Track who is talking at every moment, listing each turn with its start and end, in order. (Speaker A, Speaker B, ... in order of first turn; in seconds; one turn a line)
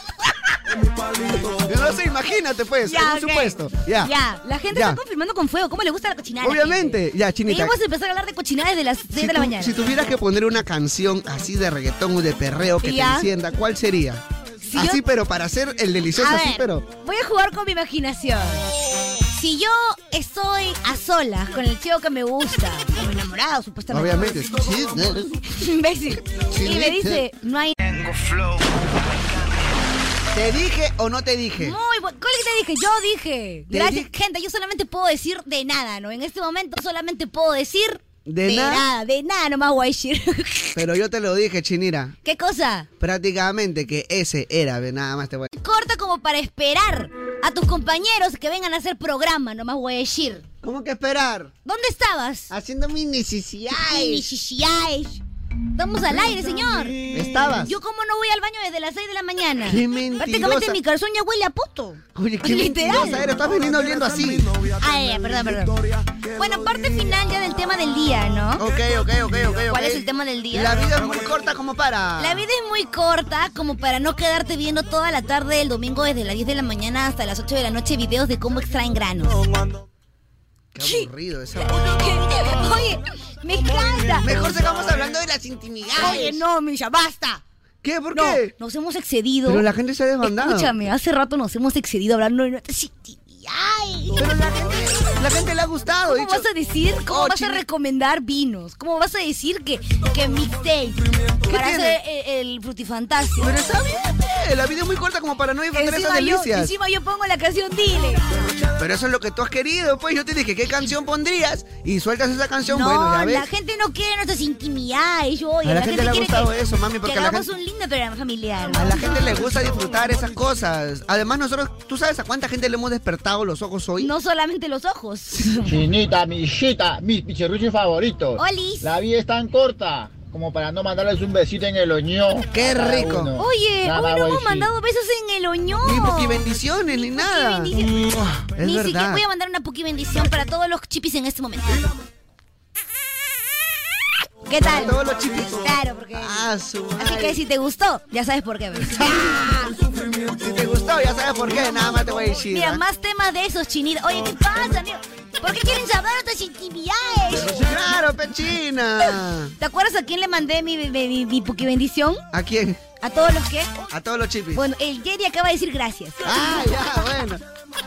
Speaker A: 1.4-4.1
Speaker B: 2.9-9.8
Speaker A: 4.7-5.0
Speaker A: 6.4-7.8
Speaker A: 9.2-14.2
Speaker B: 12.8-13.3
Speaker B: 14.7-15.0
Speaker A: 14.8-16.9
Speaker B: 16.2-18.6
Speaker B: 19.3-24.6
Speaker A: 23.9-25.3
Speaker B: 25.4-27.8
Speaker A: 26.5-27.2
Speaker A: 30.3-31.8
Speaker B: 31.6-40.8
Speaker A: 33.7-34.1
Speaker A: 38.3-38.9
Speaker A: 40.8-42.1
Speaker B: 42.2-42.9
Speaker A: 43.0-45.5
Speaker B: 45.5-50.4
Speaker A: 50.6-51.5
Speaker B: 51.6-52.5
Speaker A: 52.5-54.3
Speaker B: 53.7-55.2
Speaker B: 55.8-57.0
Speaker A: 57.1-57.7
Speaker B: 57.6-63.3
Speaker A: 59.6-60.8
Speaker A: 62.1-64.5
Speaker B: 64.8-65.8
Speaker B: 66.3-68.6
Speaker A: 68.6-72.4
Speaker B: 69.7-70.9
Speaker B: 72.2-79.4
Speaker A: 80.8-81.8
Speaker B: 80.8-81.1
Speaker B: 81.7-84.3
Speaker A: 84.2-86.4
Speaker B: 86.0-87.4
Speaker A: 87.8-88.5
Speaker B: 88.1-89.7
Speaker A: 89.5-90.7
Speaker B: 90.2-94.2
Speaker A: 94.2-96.5
Speaker B: 96.1-103.5
Speaker A: 97.1-97.6
Speaker A: 101.5-102.0
Speaker A: 103.4-106.7
Speaker B: 105.7-108.2
Speaker A: 108.7-113.5
Speaker B: 112.7-116.5
Speaker A: 115.6-117.5
Speaker B: 117.0-119.0
Speaker A: 118.7-124.1
Speaker B: 124.0-125.8
Speaker C: 125.8-128.1
Speaker B: 128.4-129.0
Speaker C: 130.8-132.4
Speaker A: 132.5-133.3
Speaker B: 133.4-138.0
Speaker A: 135.8-137.8
Speaker A: 138.6-139.2
Speaker B: 138.6-141.8
Speaker B: 144.5-145.0
Speaker A: 144.6-147.4
Speaker B: 145.6-146.4
Speaker B: 147.0-149.4
Speaker A: 149.0-149.6
Speaker A: 150.4-152.8
Speaker B: 152.5-157.6
Speaker A: 157.5-159.5
Speaker B: 159.6-162.2
Speaker A: 162.3-162.8
Speaker B: 163.0-163.7
Speaker A: 163.9-164.7
Speaker B: 164.6-166.7
Speaker A: 166.2-167.4